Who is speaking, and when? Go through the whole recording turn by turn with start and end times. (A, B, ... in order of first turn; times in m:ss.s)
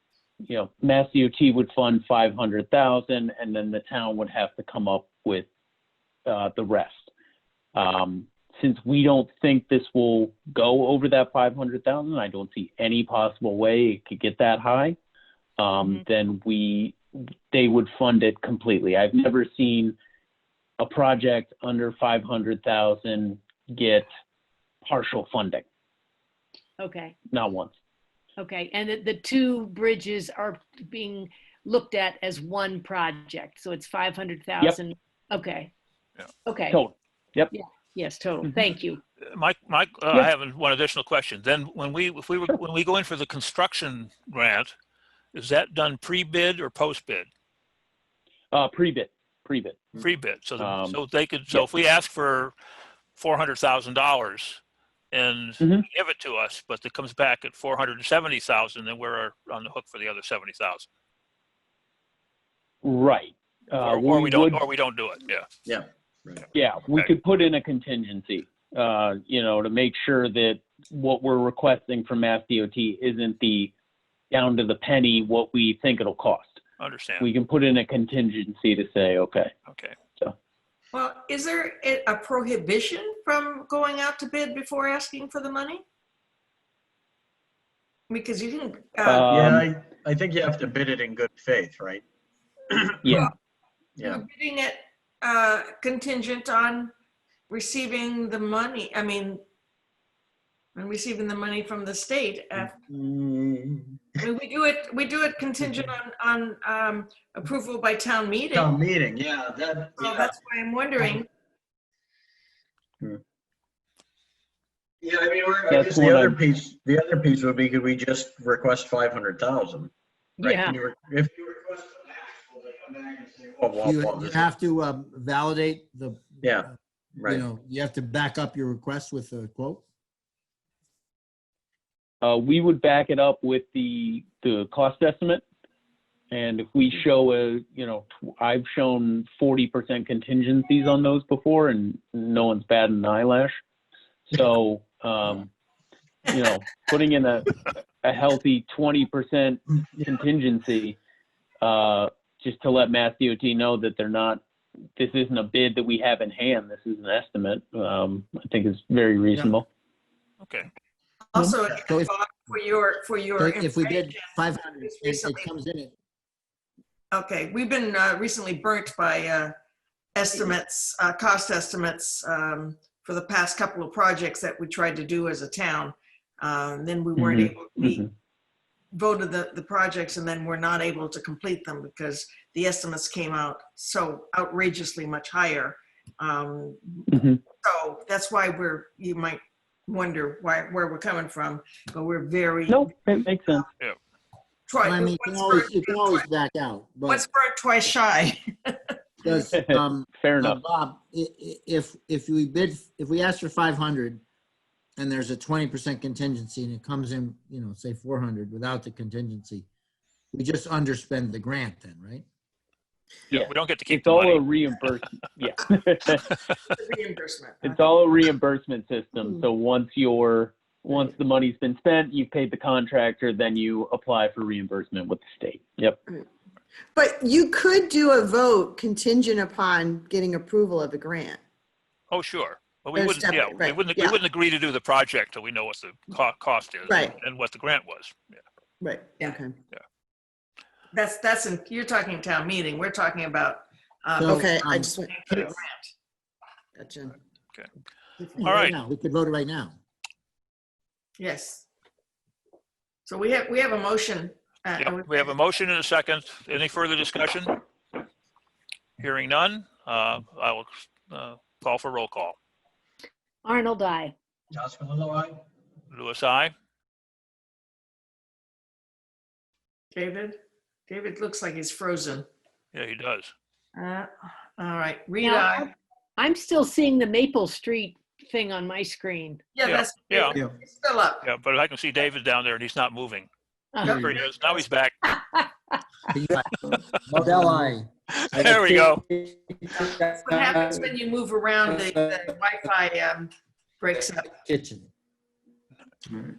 0:00.4-0:05.5 A
0:06.3-0:07.1 A
0:07.8-0:15.0 A
0:15.6-0:20.0 A
0:20.8-0:24.1 A
0:24.8-0:25.7 A
0:26.8-0:27.2 B
0:27.3-0:27.8 A
0:28.4-0:35.7 B
0:36.5-0:36.8 B
0:36.7-0:37.5 A
0:37.5-0:39.0 B
0:39.2-0:44.7 C
0:45.3-0:47.3 C
0:48.5-0:49.9 A
0:50.0-0:52.6 C
0:50.6-0:51.0 A
0:53.2-0:54.6 C
0:55.1-1:00.9 C
0:55.6-0:55.9 A
1:02.8-1:04.6 A
1:03.8-1:05.5 C
1:05.7-1:06.4 D
1:06.5-1:13.7 A
1:14.3-1:16.6 A
1:16.8-1:17.3 C
1:17.2-1:19.5 A
1:19.7-1:20.0 C
1:20.9-1:25.8 E
1:28.1-1:29.3 E
1:29.0-1:29.7 A
1:29.2-1:32.0 D
1:32.9-1:33.2 D
1:33.0-1:33.3 A
1:34.0-1:34.2 D
1:34.0-1:36.9 E
1:37.5-1:39.4 E
1:40.8-1:42.7 E
1:42.6-1:44.2 D
1:44.2-1:48.7 E
1:48.5-1:50.4 D
1:50.0-1:51.3 E
1:55.0-2:04.5 D
1:55.7-1:56.4 A
2:00.4-2:00.8 B
2:03.8-2:06.7 F
2:06.4-2:07.5 D
2:07.2-2:09.8 F
2:12.2-2:15.4 A
2:16.3-2:23.6 A
2:24.3-2:25.5 A
2:26.3-2:31.0 A
2:31.6-2:34.4 A
2:35.0-2:39.7 A
2:40.4-2:40.7 C
2:41.3-2:45.5 E
2:41.8-2:42.1 F
2:43.4-2:45.9 F
2:47.1-2:49.5 E
2:50.2-2:58.0 E
2:57.2-2:58.1 A
2:58.9-3:07.1 E
3:07.1-3:07.4 A
3:07.6-3:12.9 E
3:12.7-3:13.7 A
3:14.7-3:16.3 E
3:14.8-3:17.2 F
3:17.1-3:19.3 E
3:19.2-3:24.2 F
3:19.5-3:20.6 A
3:25.0-3:29.7 F
3:30.3-3:32.2 F
3:33.3-3:34.4 C
3:33.3-3:36.3 A
3:36.5-3:37.8 E
3:37.6-3:46.0 A
3:47.0-3:51.4 G
3:52.1-3:58.2 C
3:53.0-3:54.2 G
3:56.9-3:57.2 G
3:58.8-3:59.6 G
4:00.9-4:05.9 E
4:04.2-4:04.9 F
4:04.2-4:05.3 G
4:06.8-4:07.2 G
4:08.4-4:09.8 F
4:08.4-4:08.8 C
4:11.2-4:11.7 E
4:13.1-4:15.3 E
4:14.8-4:17.6 C
4:19.0-4:22.4 C
4:23.4-4:24.1 B
4:24.5-4:25.4 D
4:25.9-4:26.5 C
4:29.9-4:30.4 E
4:30.9-4:32.2 E
4:32.7-4:33.3 C
4:33.8-4:35.7 E
4:35.2-4:39.5 B
4:39.5-4:41.3 E
4:39.6-4:40.4 C
4:41.2-4:43.3 C
4:43.7-4:44.1 B
4:43.8-4:45.2 C
4:43.9-4:44.2 F
4:45.1-4:45.4 B
4:46.1-4:50.9 F
4:48.1-4:49.0 C
4:50.1-4:54.3 E
4:51.7-4:52.3 F
4:54.3-4:54.9 F